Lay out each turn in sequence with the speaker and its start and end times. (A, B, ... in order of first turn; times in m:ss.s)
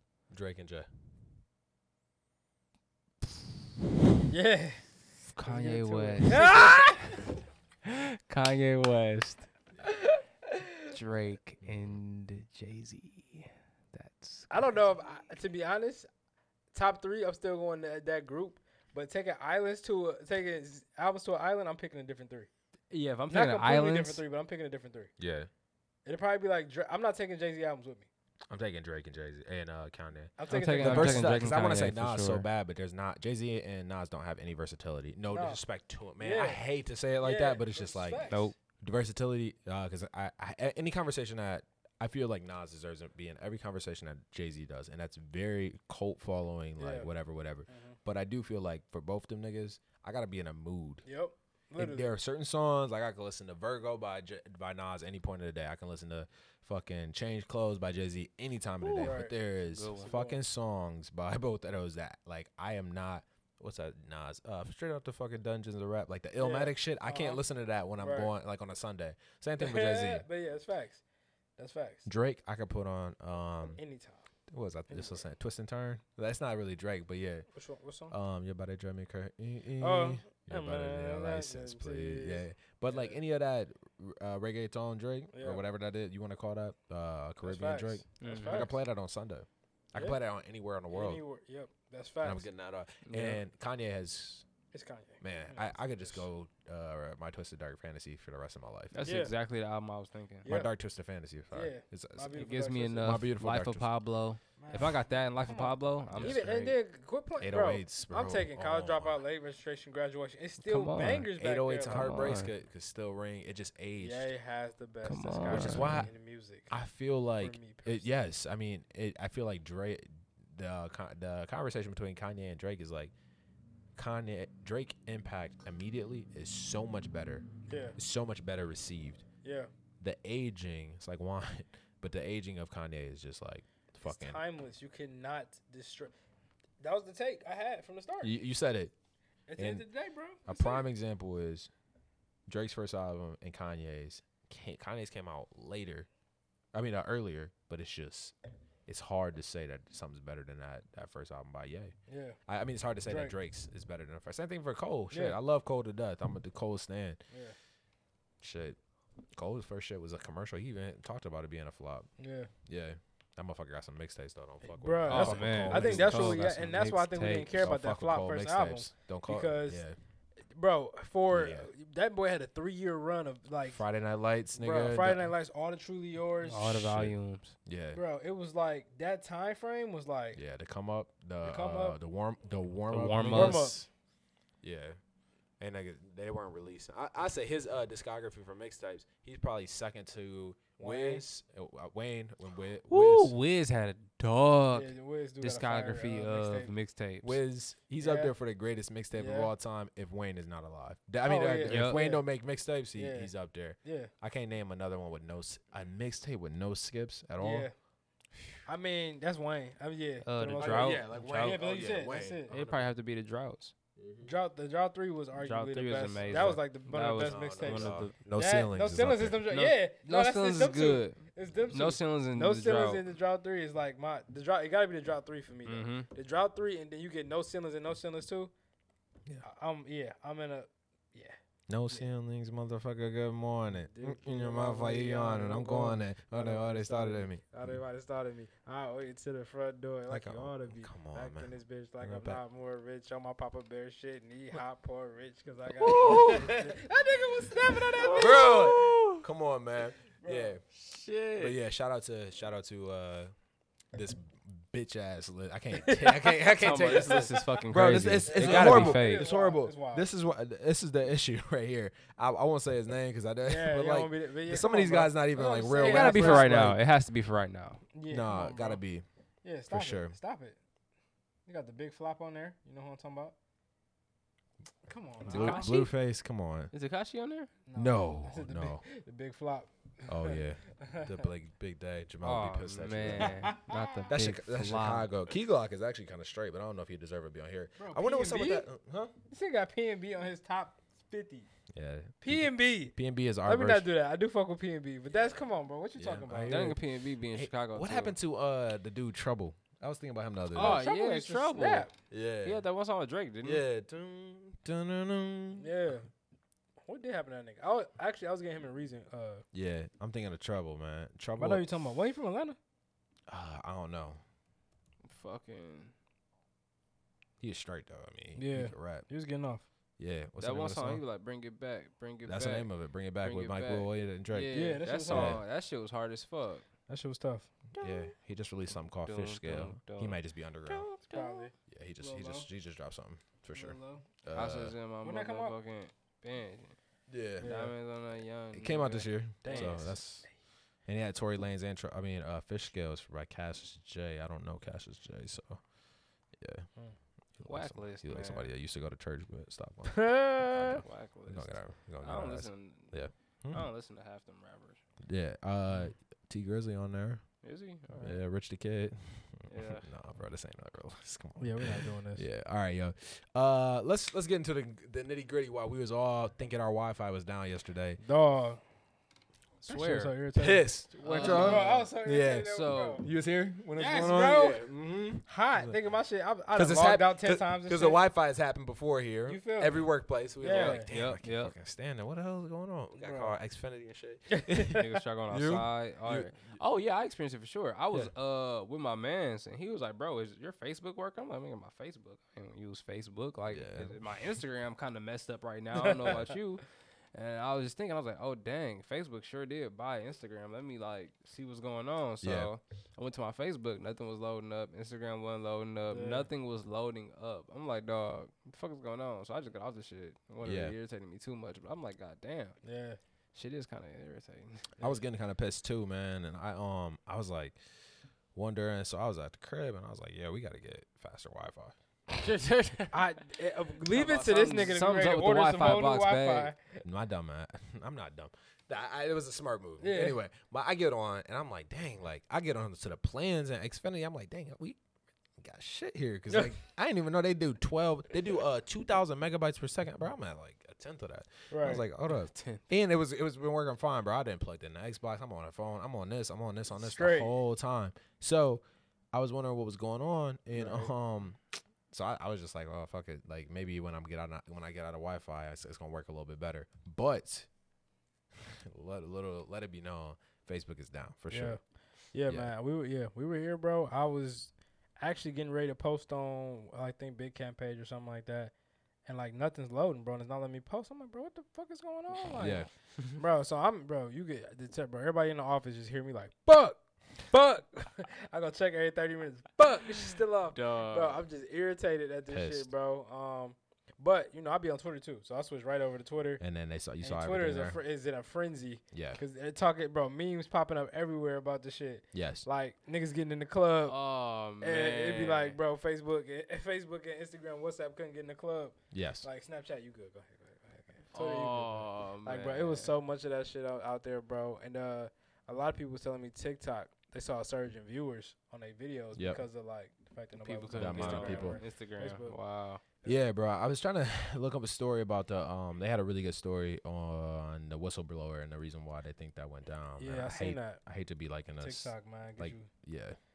0:00.3-0:00.9 A
0:04.3-0:07.1 B
0:05.3-0:07.3 C
0:07.8-0:09.5 C
0:10.9-0:14.6 C
0:11.6-0:12.0 A
0:14.5-0:16.1 B
0:16.7-0:22.5 B
0:22.9-0:24.2 C
0:23.3-0:25.1 B
0:25.2-0:25.5 A
0:26.0-0:28.1 B
0:28.5-0:51.0 A
0:30.4-0:31.5 B
0:30.5-0:32.4 C
0:35.3-0:35.6 B
0:36.2-0:36.6 B
0:37.2-0:38.5 B
0:38.3-0:38.5 C
0:46.8-0:47.1 B
0:47.7-0:48.0 B
0:51.0-0:52.1 B
0:51.8-1:10.2 A
0:58.8-0:59.2 C
0:59.0-0:59.3 B
0:59.7-1:00.1 C
1:00.0-1:00.4 B
1:06.4-1:07.4 B
1:08.0-1:08.3 B
1:09.6-1:11.0 B
1:11.6-1:12.1 B
1:12.0-1:13.8 A
1:13.6-1:14.3 B
1:14.5-1:17.5 A
1:14.9-1:15.2 B
1:17.5-1:18.2 B
1:18.1-1:31.2 A
1:19.8-1:23.2 B
1:25.3-1:25.6 B
1:27.4-1:28.8 B
1:28.2-1:28.7 C
1:29.9-1:30.2 B
1:30.9-1:32.5 B
1:32.2-1:34.4 A
1:33.0-1:33.4 C
1:34.7-1:36.3 B
1:35.2-1:39.0 A
1:38.9-1:40.4 C
1:39.0-1:39.3 B
1:40.4-1:42.4 A
1:40.4-1:40.7 B
1:41.5-1:43.2 B
1:42.3-1:46.7 C
1:43.0-1:43.9 A
1:44.6-1:52.3 B
1:46.1-1:46.7 A
1:47.4-1:49.2 A
1:50.6-1:51.3 C
1:51.2-1:54.3 A
1:51.9-1:52.5 C
1:54.0-1:56.8 B
1:55.0-1:56.1 C
1:55.5-1:56.1 A
1:56.7-2:03.1 A
1:57.4-1:58.1 B
2:04.0-2:09.2 A
2:07.7-2:08.0 B
2:09.4-2:09.7 B
2:10.0-2:14.4 A
2:14.0-2:16.1 B
2:16.8-2:18.4 B
2:18.2-2:18.9 A
2:19.5-2:20.9 B
2:19.6-2:19.9 A
2:20.4-2:21.7 A
2:22.5-2:26.1 A
2:26.7-2:28.3 A
2:28.8-2:31.9 A
2:32.1-2:32.4 B
2:32.4-2:37.2 A
2:33.0-2:33.3 B
2:35.1-2:35.4 B
2:37.3-2:37.6 B
2:38.4-2:38.8 A
2:39.3-2:42.1 A
2:42.2-2:42.5 B
2:42.6-2:46.5 A
2:44.6-2:49.8 B
2:45.1-2:47.5 C
2:47.5-2:50.0 A
2:50.5-2:53.8 B
2:51.3-2:51.7 A
2:53.7-2:55.3 A
2:54.5-2:56.8 B
2:56.4-2:57.5 C
2:56.7-2:58.0 A
2:57.9-3:00.4 B
3:00.3-3:03.8 A
3:01.4-3:02.0 B
3:02.9-3:03.8 C
3:03.3-3:03.8 B
3:04.6-3:05.0 A
3:05.6-3:13.3 A
3:10.8-3:11.2 B
3:12.9-3:17.4 C
3:14.7-3:16.7 B
3:17.2-3:27.7 A
3:18.0-3:18.3 B
3:19.1-3:19.5 B
3:21.2-3:22.2 B
3:21.6-3:22.0 C
3:22.9-3:23.3 B
3:23.8-3:24.1 B
3:27.4-3:27.7 B
3:28.6-3:32.5 B
3:30.2-3:31.6 C
3:30.5-3:32.9 A
3:32.5-3:33.7 C
3:34.0-3:34.3 A
3:34.2-3:48.5 B
3:35.4-3:38.1 C
3:36.2-3:36.6 A
3:37.2-3:39.4 A
3:39.5-3:43.0 C
3:45.6-3:46.1 C
3:49.4-3:51.4 B
3:51.7-3:57.4 A
3:53.8-4:08.8 B
4:00.1-4:02.4 A
4:05.8-4:06.7 A
4:05.9-4:06.5 C
4:07.8-4:09.2 C
4:08.2-4:10.6 A
4:10.2-4:10.6 B
4:10.7-4:11.6 C
4:11.4-4:13.3 A
4:13.9-4:26.8 A
4:15.8-4:17.6 B
4:16.6-4:19.3 C
4:18.2-4:20.1 B
4:23.4-4:26.6 B
4:25.8-4:27.8 C
4:27.9-4:28.8 B
4:28.1-4:29.0 A
4:29.4-4:30.6 B
4:29.7-4:30.1 A
4:31.4-4:33.4 B
4:34.8-4:35.8 B
4:35.3-4:36.7 A
4:35.3-4:35.9 C
4:36.7-4:37.5 C
4:37.6-4:41.3 B
4:37.7-4:38.8 A
4:40.1-4:43.5 A
4:42.2-4:45.1 C
4:43.2-4:44.1 B
4:44.1-4:49.1 A
4:47.8-4:48.7 B
4:49.3-4:51.5 B
4:51.7-4:53.9 A
4:52.2-4:56.8 B
4:55.1-4:56.8 A
4:56.4-4:58.2 C
4:57.3-5:00.8 A
5:00.5-5:01.9 C
5:00.6-5:01.9 B
5:02.1-5:02.6 A
5:02.4-5:03.6 C
5:03.4-5:05.7 A
5:05.5-5:06.1 B
5:06.8-5:09.4 B
5:09.5-5:11.7 A
5:11.4-5:12.6 B
5:13.3-5:14.2 A
5:15.0-5:15.9 C
5:17.4-5:19.0 A
5:18.3-5:19.6 B
5:20.0-5:21.0 A
5:20.4-5:26.6 C
5:22.2-5:25.4 A
5:24.5-5:25.4 B
5:26.9-5:27.5 B
5:27.8-5:30.9 A
5:27.8-5:28.1 C
5:29.0-5:31.5 C
5:31.1-5:32.5 B
5:31.7-5:34.8 A
5:33.5-5:34.1 B
5:34.3-5:36.8 C
5:35.0-5:35.6 B
5:37.1-5:37.5 A
5:37.4-5:37.7 B
5:37.4-5:40.0 C
5:38.5-5:40.3 A
5:39.4-5:40.0 B
5:40.8-5:45.6 A
5:46.4-5:46.7 A
5:47.4-5:53.6 A
5:47.4-5:48.5 C
5:49.9-5:50.8 B
5:50.8-5:54.8 C
5:55.0-5:57.4 A
5:57.4-5:58.2 C
5:58.0-6:08.0 A
5:59.5-5:59.9 C
6:01.4-6:02.2 B
6:08.0-6:08.6 B
6:09.6-6:10.1 C
6:09.6-6:13.0 B
6:10.4-6:15.8 A
6:11.0-6:13.0 C
6:13.7-6:18.0 B
6:16.5-6:26.6 A
6:19.3-6:20.9 B
6:20.4-6:21.5 C
6:22.9-6:23.3 B
6:24.3-6:24.8 B
6:24.7-6:52.6 C
6:33.5-6:34.0 A
6:42.2-6:42.5 A
6:45.9-6:46.3 B
6:50.4-6:50.8 A
6:52.6-6:53.0 B
6:53.3-6:54.7 C
6:54.8-6:57.6 A
6:58.3-7:01.8 A
7:02.1-7:03.0 C
7:02.9-7:06.8 B
7:03.8-7:06.5 C
7:06.8-7:14.8 A
7:09.8-7:10.2 B
7:15.4-7:37.5 A
7:16.3-7:16.6 B
7:21.5-7:21.9 B
7:22.1-7:22.6 C
7:26.7-7:27.4 B
7:30.5-7:30.9 B
7:38.4-7:41.6 A
7:41.3-7:41.6 B
7:42.1-7:48.5 B
7:42.3-7:42.5 A
7:49.0-8:06.4 B
7:52.3-7:53.1 C
7:52.3-7:52.7 A
8:00.5-8:01.2 C
8:02.3-8:02.7 A
8:06.4-8:07.8 A
8:07.0-8:14.0 B
8:08.9-8:09.2 A
8:12.1-8:12.5 A
8:13.9-8:15.6 C
8:14.6-8:32.4 B
8:18.9-8:19.3 A
8:21.1-8:22.9 C
8:29.1-8:29.4 A
8:30.3-8:32.8 C
8:30.8-8:31.6 A
8:33.0-8:43.2 A
8:40.0-8:40.8 B
8:41.6-8:42.7 B